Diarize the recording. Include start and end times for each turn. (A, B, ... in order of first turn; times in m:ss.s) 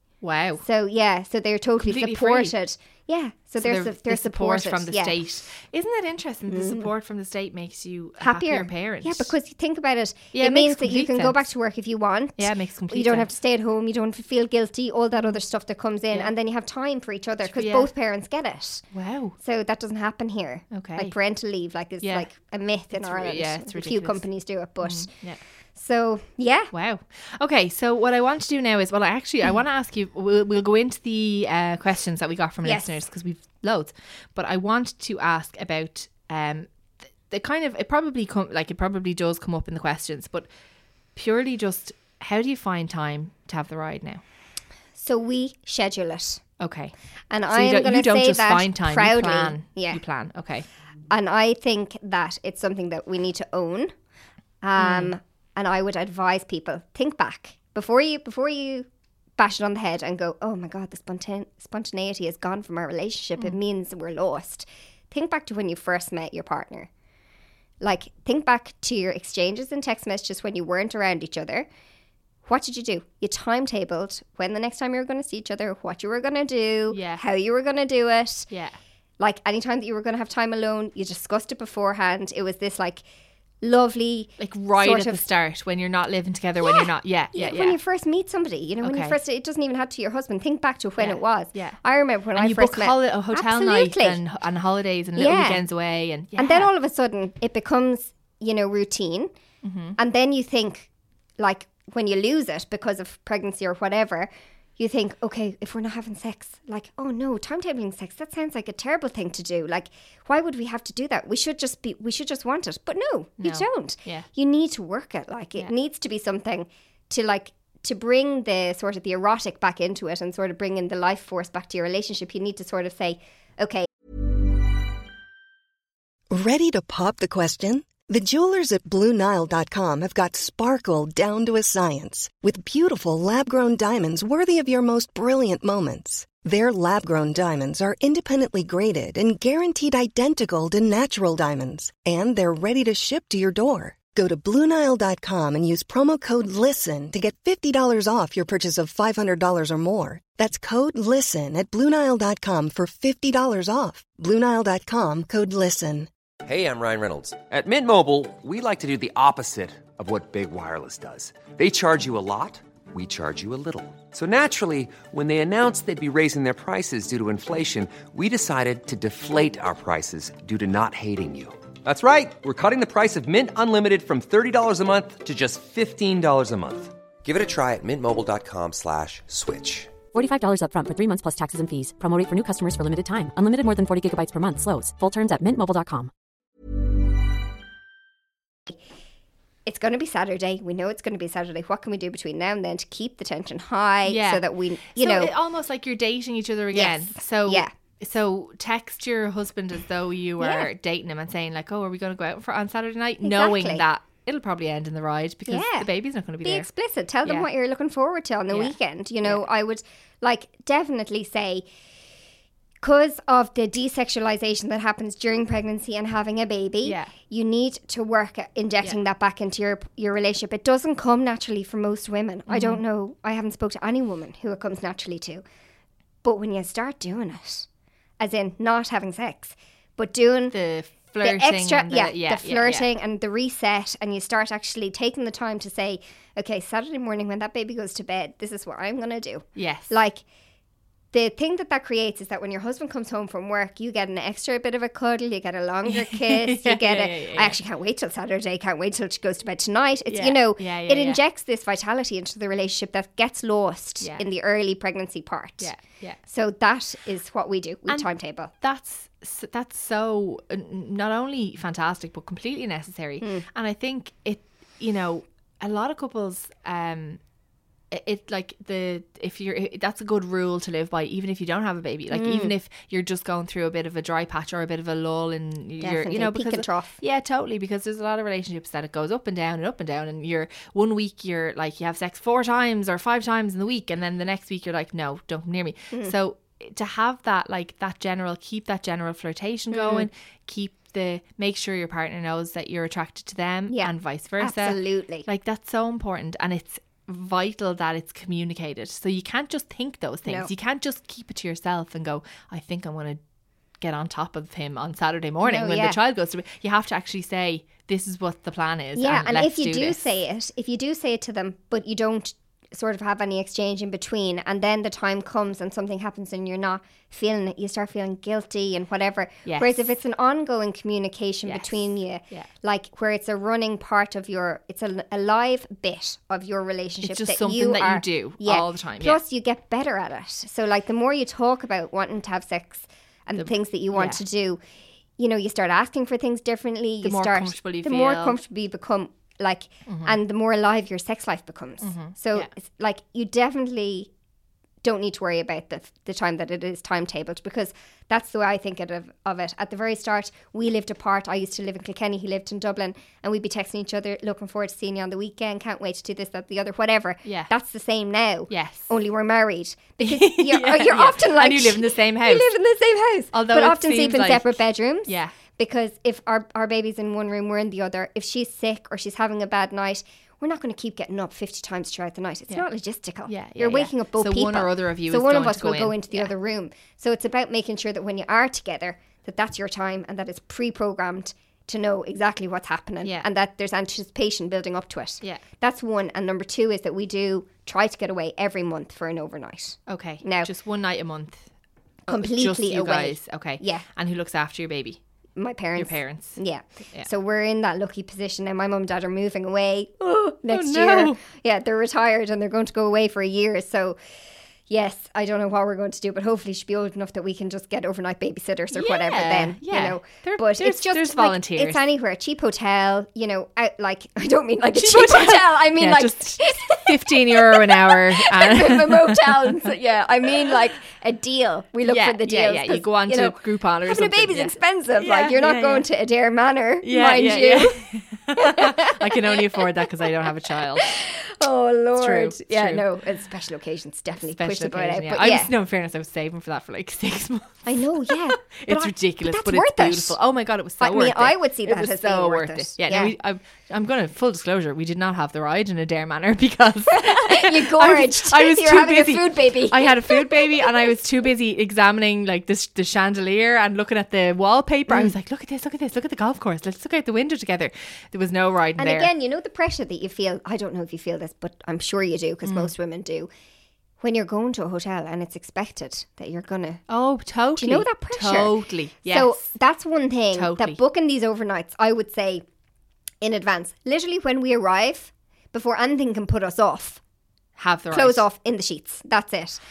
0:00.2-0:00.6 A
0:00.6-0:05.2 B
0:01.8-0:02.5 A
0:03.6-0:09.3 A
0:06.5-0:06.9 B
0:08.2-0:18.8 B
0:10.3-0:11.4 A
0:12.4-0:13.3 A
0:17.5-0:17.9 A
0:18.9-0:19.4 A
0:19.4-0:25.1 B
0:20.7-0:21.2 A
0:22.0-0:22.3 A
0:22.9-0:24.2 A
0:24.8-0:25.4 A
0:25.8-0:26.7 B
0:26.7-0:36.7 A
0:32.6-0:33.0 B
0:37.3-0:40.5 A
0:41.2-0:44.2 A
0:45.0-0:46.4 B
0:46.6-0:46.9 A
0:47.3-0:50.0 B
0:47.5-0:50.7 A
0:51.1-0:53.9 B
0:54.6-0:58.9 B
0:54.8-0:55.1 A
0:59.4-1:06.9 B
1:07.8-1:11.7 B
1:12.4-1:18.5 B
1:16.9-1:17.2 A
1:18.5-1:18.8 A
1:19.2-1:23.0 B
1:23.6-1:25.2 B
1:24.4-1:27.8 A
1:26.6-1:34.2 B
1:28.8-1:29.2 A
1:31.0-1:31.8 A
1:32.4-1:36.7 A
1:35.2-1:35.6 B
1:36.4-1:39.3 B
1:39.6-1:40.0 A
1:40.0-2:03.9 B
1:53.4-1:54.3 A
2:06.3-2:36.1 C
2:36.4-2:59.9 D
3:00.1-3:06.1 E
3:09.7-3:15.3 B
3:14.1-3:14.4 A
3:15.0-3:26.7 A
3:16.7-3:17.7 B
3:20.4-3:20.7 B
3:23.2-3:23.8 B
3:25.5-3:25.9 B
3:26.4-3:31.7 B
3:28.5-3:29.4 A
3:32.8-3:45.4 B
3:36.8-3:37.1 A
3:42.5-3:42.8 A
3:46.2-3:47.7 B
3:48.2-3:50.6 B
3:50.5-3:52.9 A
3:51.2-4:00.2 B
3:59.6-4:00.0 A
4:01.1-4:15.7 B
4:05.9-4:07.6 A
4:10.1-4:11.2 A
4:15.6-4:16.2 A
4:16.3-4:18.5 B
4:18.6-4:27.2 A
4:27.9-5:03.2 A
4:32.1-4:32.5 B
4:35.8-4:37.0 B
4:49.7-4:50.1 B
4:53.7-4:55.3 B
5:00.3-5:00.5 B
5:03.8-5:10.1 A
5:05.4-5:06.0 B
5:09.0-5:34.6 B
5:19.5-5:19.9 A
5:21.4-5:22.5 A
5:27.0-5:29.2 A
5:33.4-5:34.2 A
5:35.2-5:44.1 B
5:37.0-5:38.4 A
5:39.9-5:40.2 A
5:41.8-5:42.5 A
5:44.8-6:30.5 B
5:57.2-5:57.5 A
5:58.5-5:58.9 A
6:00.0-6:02.5 A
6:03.3-6:05.3 A
6:13.3-6:16.3 A
6:23.0-6:23.3 A
6:29.9-6:31.5 A
6:32.1-6:33.8 B
6:32.1-6:35.0 A
6:35.4-6:44.0 B
6:35.8-6:36.4 A
6:40.5-6:41.2 A
6:44.7-7:07.8 B
6:48.7-6:51.8 A
6:54.7-6:59.7 A
7:01.9-7:05.9 A
7:06.8-7:11.0 A
7:08.4-7:15.5 B
7:12.0-7:12.9 A
7:14.2-7:39.1 A
7:17.7-7:20.2 B
7:20.8-7:23.1 B
7:26.9-7:30.9 B
7:34.9-7:35.1 B
7:38.8-7:43.3 B
7:42.4-7:42.7 A
7:44.0-7:46.8 B
7:46.9-7:49.4 A
7:47.6-7:48.6 B
7:49.1-7:52.4 B
7:50.3-7:50.8 A
7:53.2-7:57.0 B
7:57.6-7:58.2 A
7:57.9-7:59.6 B